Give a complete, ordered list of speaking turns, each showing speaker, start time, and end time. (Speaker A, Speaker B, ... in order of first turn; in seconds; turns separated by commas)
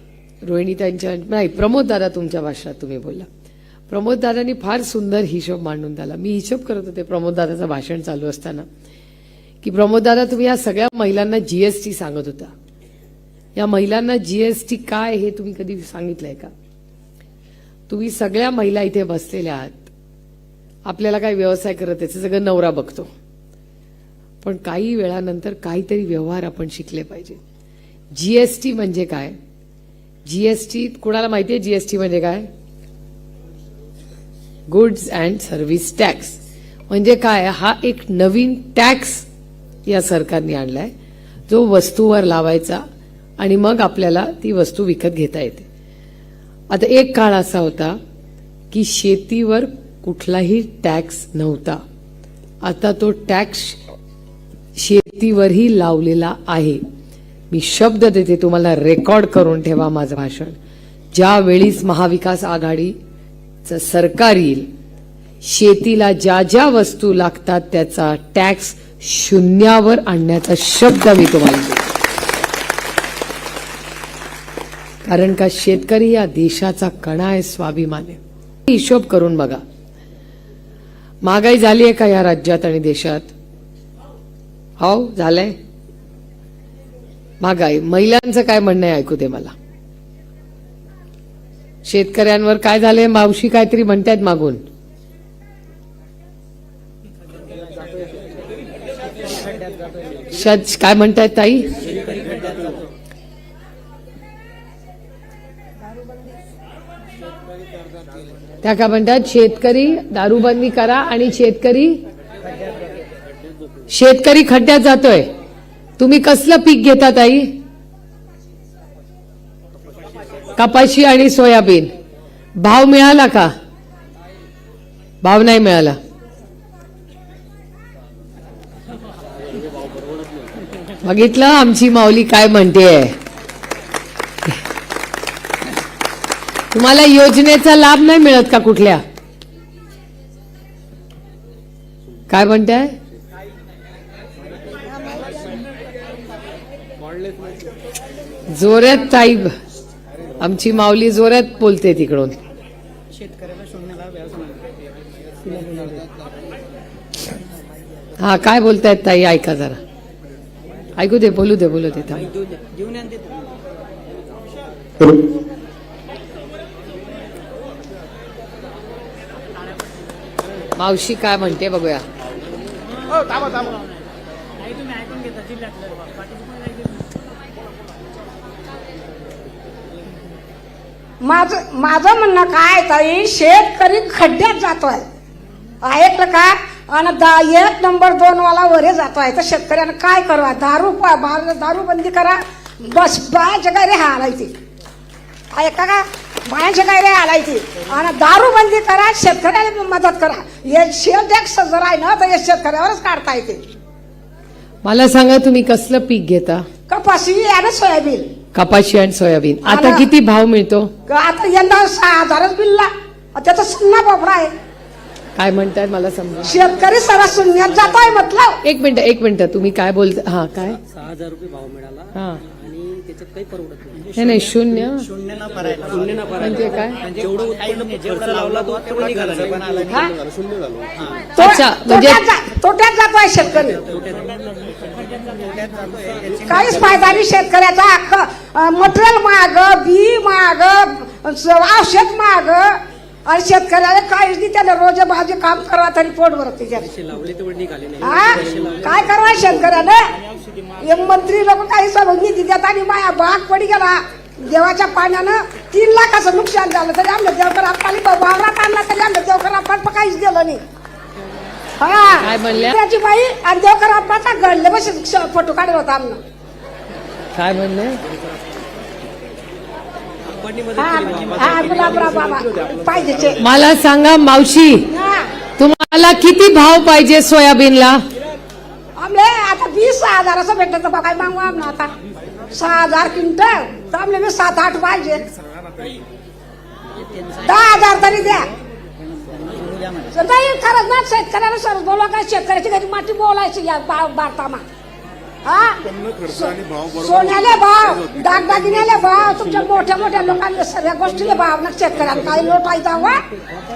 Speaker A: 0.4-3.3, Speaker A: 3.9-8.7, Speaker A: 9.6-12.5, Speaker A: 13.5-16.5, Speaker A: 17.9-19.9, Speaker A: 20.9-23.1, Speaker A: 24.4-27.4, Speaker A: 28.1-29.3, Speaker A: 30.2-32.5, Speaker A: 34.7-39.3, Speaker A: 39.9-40.9, Speaker A: 41.5-42.8, Speaker A: 43.4-45.7, Speaker A: 46.7-48.0, Speaker A: 48.7-51.8, Speaker A: 52.6-53.8, Speaker A: 54.8-56.8, Speaker A: 57.5-60.5, Speaker A: 61.1-63.0, Speaker A: 63.6-64.7, Speaker A: 65.4-72.0, Speaker A: 75.0-79.6, Speaker A: 81.2-83.3, Speaker A: 84.8-85.5, Speaker A: 87.4-89.5, Speaker A: 91.8-94.6, Speaker A: 100.3-101.9, Speaker A: 108.6-112.0, Speaker A: 113.9-115.3, Speaker A: 116.0-117.5, Speaker A: 120.5-121.9, Speaker A: 122.6-123.5, Speaker A: 125.2-126.0, Speaker A: 131.0-133.2, Speaker A: 136.7-139.0, Speaker A: 142.3-142.9, Speaker A: 148.5-149.5, Speaker A: 150.4-152.4, Speaker B: 153.7-154.3, Speaker A: 158.2-159.8, Speaker A: 161.0-162.3, Speaker B: 162.6-163.2, Speaker A: 170.8-172.0, Speaker C: 181.2-185.1, Speaker C: 185.8-194.5, Speaker C: 195.5-203.7, Speaker A: 204.8-206.7, Speaker C: 206.9-208.3, Speaker A: 208.5-210.9, Speaker C: 209.7-210.1, Speaker C: 211.1-214.5, Speaker A: 215.3-216.6, Speaker C: 216.4-218.6, Speaker A: 218.6-220.8, Speaker B: 221.0-222.1, Speaker A: 222.1-222.4, Speaker B: 222.6-224.1, Speaker A: 224.1-225.1, Speaker B: 225.5-226.3, Speaker A: 226.3-227.1, Speaker B: 227.3-229.7, Speaker C: 229.7-230.1, Speaker C: 231.3-233.8, Speaker A: 231.4-232.2, Speaker B: 235.2-236.2, Speaker C: 236.4-246.9, Speaker B: 247.1-248.0, Speaker C: 248.0-250.2, Speaker C: 250.8-260.6, Speaker C: 261.8-266.2, Speaker A: 262.1-262.8, Speaker A: 267.3-268.0, Speaker C: 270.7-273.4, Speaker A: 273.4-274.9, Speaker C: 274.9-275.3, Speaker A: 275.6-278.0, Speaker C: 279.0-281.9, Speaker C: 282.5-285.2, Speaker C: 287.3-288.5, Speaker C: 290.0-294.6, Speaker C: 295.4-303.2